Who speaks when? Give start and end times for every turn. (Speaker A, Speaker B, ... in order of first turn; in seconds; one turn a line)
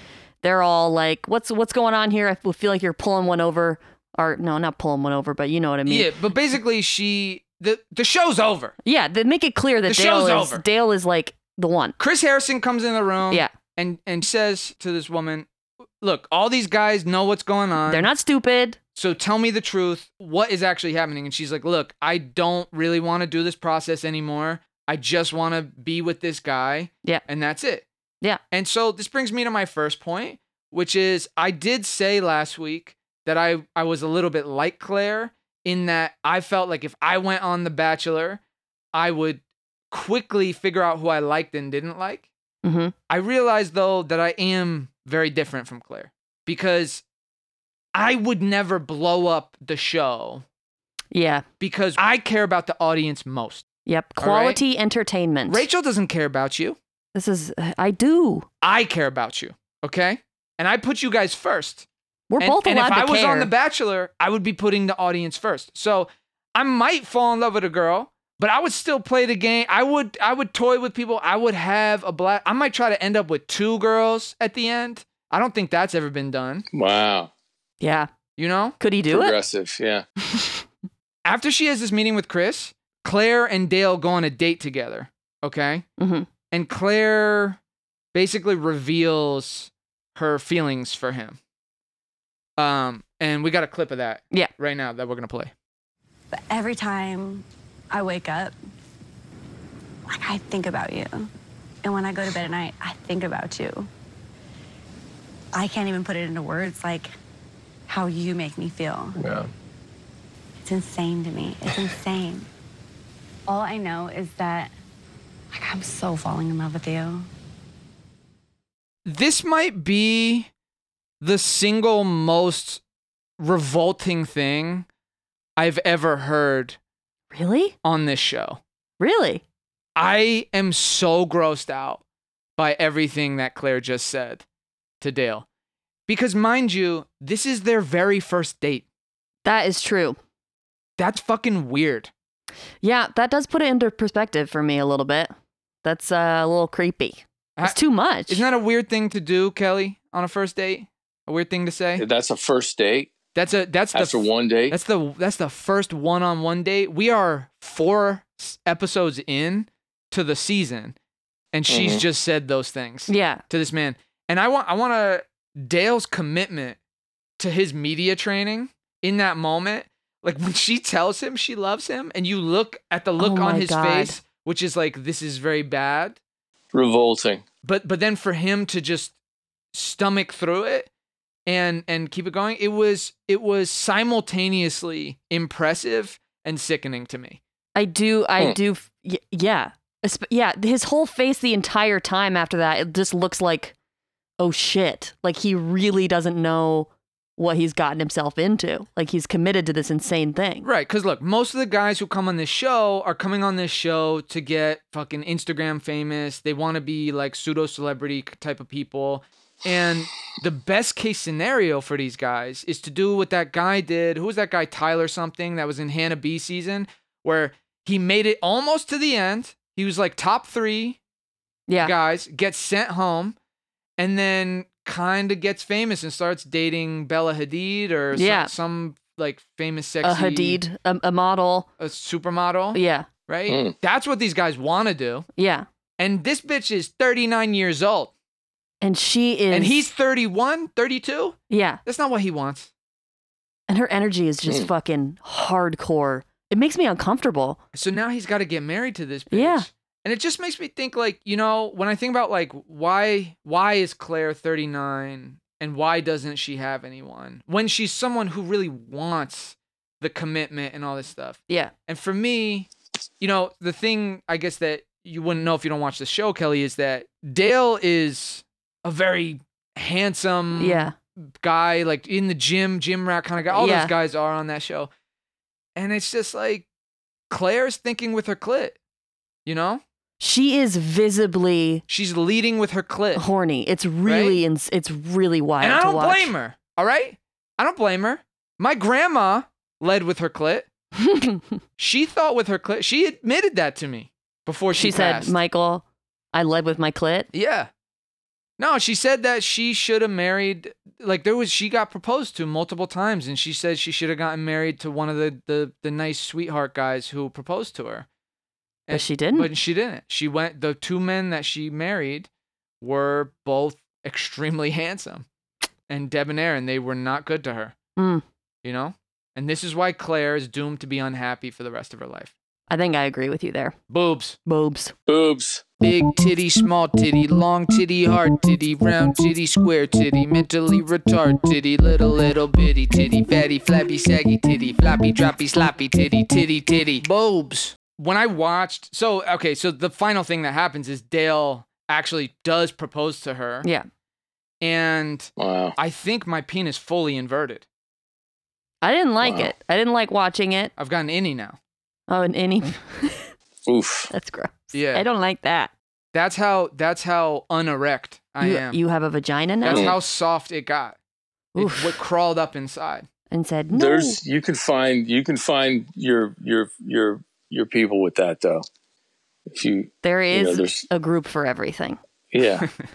Speaker A: 0.4-6.1
Speaker B: 5.9-8.7
Speaker A: 8.8-12.0
Speaker B: 9.9-10.6
Speaker B: 12.0-15.5
Speaker B: 16.0-18.1
Speaker A: 17.9-18.8
Speaker B: 18.9-27.9
Speaker B: 28.5-38.4
Speaker B: 38.9-42.3
Speaker A: 42.6-42.9
Speaker B: 43.1-47.0
Speaker B: 47.9-50.4
Speaker A: 51.1-51.5
Speaker B: 51.6-53.6
Speaker A: 53.9-55.6
Speaker B: 54.2-54.6
Speaker B: 55.5-56.8
Speaker A: 57.1-58.5
Speaker B: 58.6-61.9
Speaker A: 62.3-63.5
Speaker B: 62.4-76.7
Speaker C: 76.7-77.3
Speaker A: 77.8-78.1
Speaker B: 78.4-78.8
Speaker A: 78.8-79.4
Speaker C: 79.1-80.0
Speaker A: 80.3-80.6
Speaker B: 81.2-85.8
Speaker A: 86.0-86.3
Speaker B: 86.5-87.6
Speaker B: 88.1-91.4
Speaker B: 92.6-95.5
Speaker D: 96.3-98.5
Speaker D: 100.1-101.3
Speaker D: 101.8-103.9
Speaker D: 105.5-107.1
Speaker D: 107.9-109.2
Speaker C: 109.2-109.5
Speaker D: 110.7-112.5
Speaker D: 113.5-114.7
Speaker D: 115.5-117.3
Speaker B: 119.0-120.5
Speaker B: 121.2-122.8
Speaker B: 123.4-124.9
Speaker B: 125.6-126.8
Speaker A: 127.3-127.8
Speaker B: 127.8-128.6
Speaker A: 129.0-129.4
Speaker B: 130.0-132.0
Speaker B: 132.6-134.4
Speaker B: 135.0-135.5
Speaker B: 136.1-138.8
Speaker A: 139.4-140.2
Speaker B: 141.0-142.1
Speaker A: 142.8-145.3
Speaker A: 145.8-148.4
Speaker B: 147.6-152.1
Speaker C: 152.0-153.1
Speaker B: 153.3-161.0
Speaker C: 153.9-154.8
Speaker B: 161.5-166.8
Speaker C: 161.7-162.0
Speaker A: 163.1-163.4
Speaker B: 167.4-176.2
Speaker A: 173.2-174.2
Speaker C: 176.7-177.4
Speaker B: 177.6-179.1
Speaker B: 179.7-180.9
Speaker B: 181.5-187.4
Speaker A: 187.8-193.8
Speaker A: 194.4-200.7
Speaker B: 200.6-221.0
Speaker A: 221.7-221.9
Speaker B: 221.8-223.4
Speaker B: 224.0-230.6
Speaker A: 228.1-228.5
Speaker A: 230.0-231.7
Speaker B: 231.8-235.3
Speaker A: 232.7-233.1
Speaker C: 233.5-233.8
Speaker A: 235.4-235.7
Speaker B: 236.0-238.1
Speaker A: 238.8-239.9
Speaker B: 239.5-242.7
Speaker A: 241.5-241.8
Speaker A: 243.7-247.6
Speaker B: 247.7-262.7
Speaker A: 249.3-249.7
Speaker B: 263.2-270.9
Speaker A: 270.6-270.9
Speaker B: 271.4-274.9
Speaker A: 273.5-273.9
Speaker B: 275.8-276.7
Speaker B: 277.3-278.8
Speaker B: 279.5-279.8
Speaker A: 280.2-281.8
Speaker B: 281.9-283.2
Speaker A: 283.2-286.3
Speaker B: 284.1-284.4
Speaker B: 285.6-290.7
Speaker A: 291.0-291.6
Speaker B: 291.8-295.3
Speaker A: 294.7-297.3
Speaker B: 297.3-297.7
Speaker B: 298.6-308.1
Speaker B: 308.9-312.3
Speaker A: 308.9-309.5
Speaker B: 312.8-315.3
Speaker B: 315.9-317.8
Speaker A: 318.0-318.2
Speaker B: 318.6-322.3
Speaker A: 322.7-323.8
Speaker B: 323.9-324.4
Speaker A: 324.4-324.9
Speaker C: 325.1-325.6
Speaker B: 325.8-343.7
Speaker B: 344.6-347.6
Speaker C: 345.4-345.8
Speaker A: 348.8-350.7
Speaker C: 349.2-349.5
Speaker B: 350.8-351.6
Speaker A: 352.1-353.3
Speaker C: 353.7-354.1
Speaker A: 354.1-355.7
Speaker B: 354.7-355.1
Speaker B: 356.1-358.8
Speaker A: 358.4-359.9
Speaker B: 359.6-361.0
Speaker C: 359.7-360.0
Speaker A: 361.6-362.0
Speaker B: 361.6-363.1
Speaker A: 363.3-364.2
Speaker C: 363.7-368.6
Speaker C: 369.5-370.9
Speaker A: 370.0-372.0
Speaker C: 372.3-372.7